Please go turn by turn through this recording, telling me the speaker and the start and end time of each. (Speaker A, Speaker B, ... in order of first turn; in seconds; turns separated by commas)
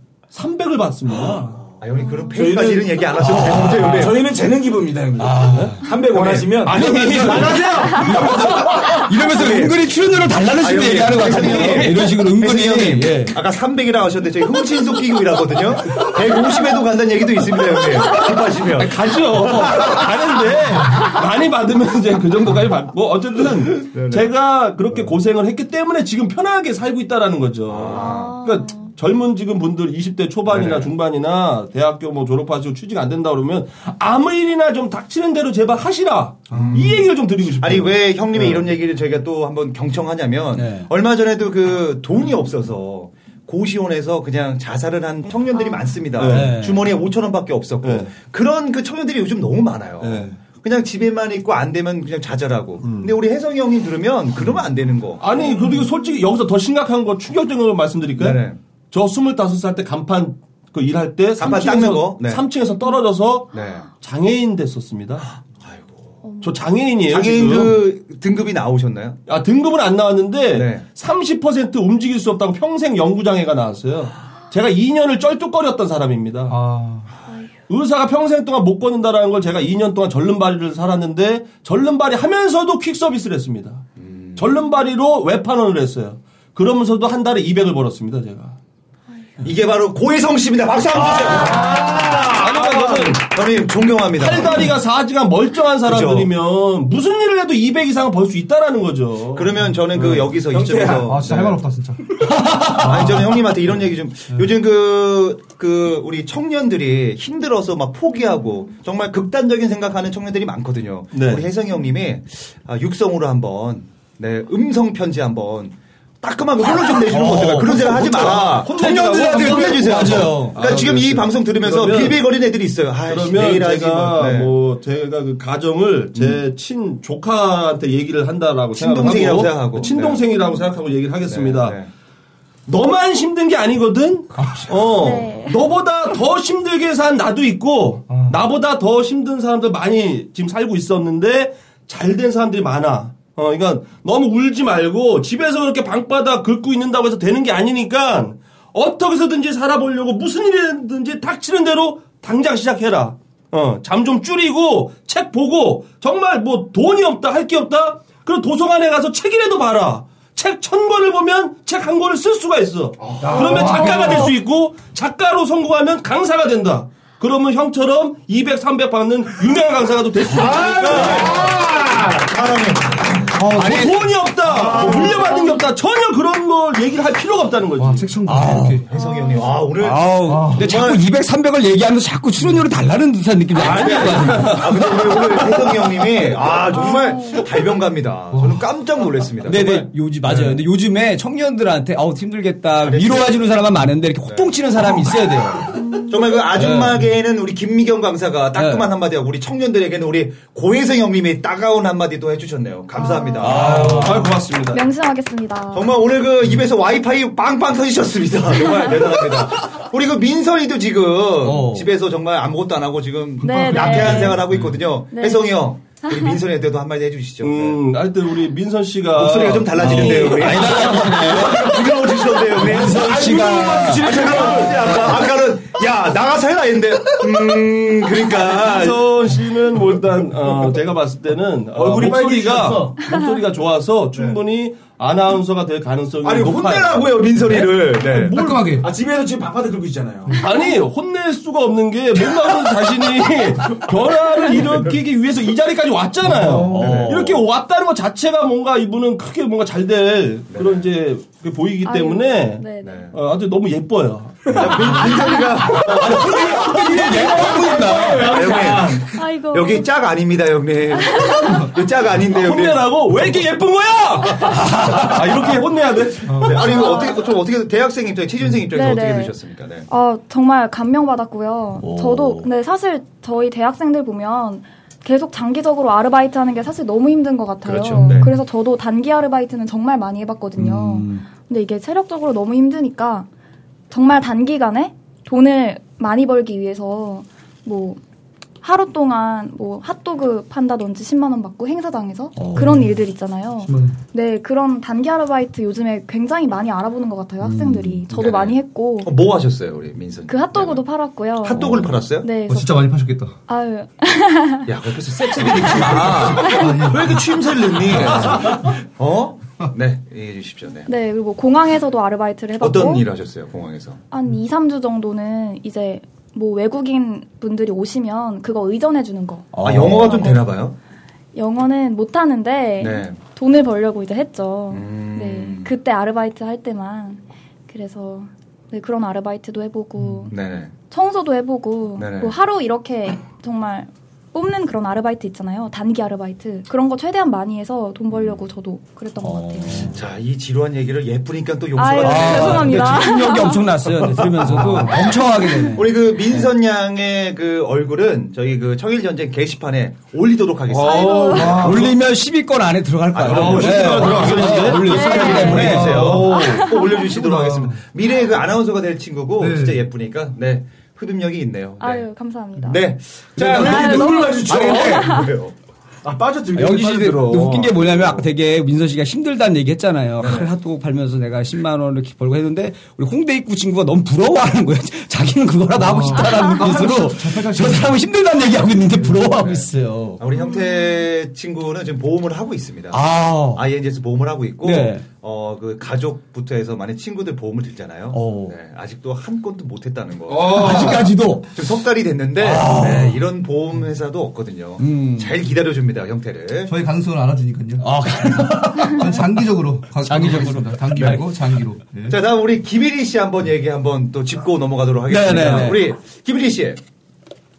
Speaker A: 0.3-1.6, Speaker B: 1.8-4.3, Speaker C: 2.0-2.4, Speaker D: 2.3-8.9, Speaker E: 3.3-4.1, Speaker E: 5.2-5.8, Speaker B: 6.1-7.6, Speaker A: 6.6-8.7, Speaker E: 6.9-7.4, Speaker E: 8.2-13.3, Speaker B: 8.9-9.8, Speaker B: 10.6-20.5, Speaker A: 11.4-11.9, Speaker A: 18.8-38.7, Speaker B: 23.9-24.3, Speaker B: 27.7-28.4, Speaker C: 27.9-28.9, Speaker B: 30.5-30.9, Speaker B: 36.5-55.2, Speaker E: 40.5-40.9, Speaker A: 46.2-46.5, Speaker E: 46.2-46.9, Speaker A: 47.8-48.1, Speaker A: 50.0-50.4, Speaker A: 52.8-53.1, Speaker A: 55.2-63.5, Speaker C: 55.5-55.9, Speaker B: 58.2-58.6, Speaker B: 61.4-62.4, Speaker B: 63.5-63.9, Speaker A: 64.0-65.3, Speaker B: 65.3-66.2, Speaker A: 66.4-67.8, Speaker B: 67.1-69.2, Speaker A: 69.3-76.6, Speaker B: 70.5-70.8, Speaker F: 76.5-77.1, Speaker A: 77.7-83.8, Speaker B: 84.0-84.5, Speaker A: 84.4-88.6, Speaker B: 89.4-94.8, Speaker A: 91.0-93.3, Speaker D: 91.4-92.3, Speaker A: 94.2-100.3, Speaker B: 95.8-96.3, Speaker B: 99.3-101.6, Speaker D: 100.5-101.2, Speaker F: 101.1-103.3, Speaker E: 102.4-102.7, Speaker B: 102.8-124.5, Speaker A: 111.1-111.5, Speaker E: 117.1-117.9, Speaker A: 117.1-122.2, Speaker E: 118.7-120.6, Speaker A: 123.1-131.8, Speaker B: 128.8-130.2, Speaker C: 129.8-130.7, Speaker B: 131.3-131.9, Speaker A: 132.7-171.5, Speaker F: 134.4-134.7, Speaker C: 134.9-135.7, Speaker F: 138.1-138.4, Speaker D: 163.0-164.2, Speaker F: 163.4-164.2, Speaker D: 170.3-173.2, Speaker B: 170.9-171.5, Speaker F: 173.4-174.0, Speaker A: 173.5-178.1, Speaker E: 173.6-173.9, Speaker D: 174.6-175.1, Speaker B: 174.8-175.1, Speaker C: 175.1-175.6, Speaker F: 177.8-178.9, Speaker E: 178.3-178.8, Speaker B: 178.9-181.0, Speaker C: 178.9-179.6, Speaker E: 179.8-184.7, Speaker F: 180.3-180.7, Speaker A: 183.6-185.8, Speaker B: 183.6-190.6, Speaker C: 186.7-187.4, Speaker F: 188.3-188.7, Speaker E: 189.4-195.8, Speaker B: 192.8-193.6, Speaker B: 194.3-204.2, Speaker C: 195.8-196.4, Speaker E: 196.6-197.0, Speaker E: 198.5-198.9, Speaker C: 202.9-203.5, Speaker E: 203.4-204.4, Speaker A: 203.4-204.8, Speaker C: 204.7-205.9, Speaker B: 205.7-217.8, Speaker E: 211.4-211.9, Speaker C: 213.4-214.4, Speaker F: 213.4-214.4, Speaker C: 215.1-216.4, Speaker A: 217.4-221.8, Speaker B: 219.1-223.4, Speaker E: 219.8-221.7, Speaker D: 221.4-225.4, Speaker E: 222.5-224.2, Speaker B: 223.9-229.1, Speaker A: 228.3-237.1, Speaker D: 231.8-233.0, Speaker C: 233.1-233.4, Speaker D: 236.2-237.6, Speaker B: 236.8-238.6, Speaker F: 238.2-238.9, Speaker D: 238.8-240.4, Speaker A: 240.4-258.8, Speaker D: 246.3-246.8, Speaker E: 246.7-247.4, Speaker B: 246.7-247.3, Speaker B: 250.5-250.9, Speaker C: 251.8-253.1, Speaker B: 252.8-253.1, Speaker B: 254.5-257.3, Speaker C: 255.0-255.6, Speaker E: 255.9-258.5, Speaker D: 256.0-259.0, Speaker B: 258.0-262.9, Speaker C: 259.1-259.9, Speaker C: 260.9-261.7, Speaker A: 262.2-266.7, Speaker B: 264.4-265.1, Speaker E: 264.6-265.0, Speaker F: 266.3-266.7, Speaker B: 266.4-269.9, Speaker C: 266.6-267.3, Speaker C: 268.7-269.4, Speaker C: 269.9-283.3, Speaker E: 271.8-272.5, Speaker B: 277.6-278.4, Speaker E: 280.6-281.2, Speaker C: 283.9-288.0, Speaker C: 288.6-299.1, Speaker E: 292.4-292.9, Speaker F: 292.6-292.9, Speaker F: 293.6-294.0, Speaker E: 297.4-298.1, Speaker B: 298.1-300.9, Speaker C: 300.3-302.9, Speaker B: 301.4-302.4, Speaker E: 301.6-301.9, Speaker F: 302.4-303.4, Speaker C: 303.5-304.7, Speaker B: 304.7-310.9, Speaker C: 305.3-306.9, Speaker F: 305.7-307.3, Speaker A: 307.8-308.5, Speaker C: 310.9-313.1, Speaker B: 312.6-314.0, Speaker C: 314.1-320.4, Speaker E: 319.5-320.3, Speaker B: 319.6-320.8, Speaker C: 321.4-330.3, Speaker B: 322.8-323.2, Speaker B: 324.7-325.7, Speaker B: 330.3-330.8, Speaker C: 330.9-339.9, Speaker B: 332.0-332.4, Speaker B: 338.1-338.4, Speaker E: 339.2-340.0, Speaker B: 339.9-343.1, Speaker C: 341.8-343.6, Speaker E: 342.0-345.9, Speaker B: 344.2-351.5, Speaker A: 350.7-351.8, Speaker C: 350.8-351.7, Speaker F: 351.3-351.9, Speaker E: 351.6-356.2, Speaker B: 353.1-362.1, Speaker A: 353.2-356.9, Speaker C: 354.8-355.8, Speaker F: 355.5-356.4, Speaker C: 356.3-357.1, Speaker F: 357.1-357.8, Speaker F: 359.4-359.8, Speaker C: 361.8-362.9, Speaker B: 362.6-365.6, Speaker D: 363.4-365.2, Speaker C: 363.6-365.3, Speaker D: 366.0-368.2, Speaker E: 366.6-380.2, Speaker B: 370.2-370.5, Speaker F: 375.8-378.0, Speaker D: 376.7-377.5, Speaker B: 379.1-396.7, Speaker C: 380.4-381.0, Speaker E: 382.9-383.6, Speaker E: 384.6-385.0, Speaker E: 388.1-388.6, Speaker D: 390.4-391.0, Speaker E: 390.5-391.5, Speaker E: 392.4-393.2, Speaker E: 394.8-395.3, Speaker F: 396.7-397.9, Speaker E: 397.8-399.1, Speaker F: 398.4-402.2, Speaker E: 400.0-401.2, Speaker B: 402.1-406.8, Speaker E: 405.1-405.9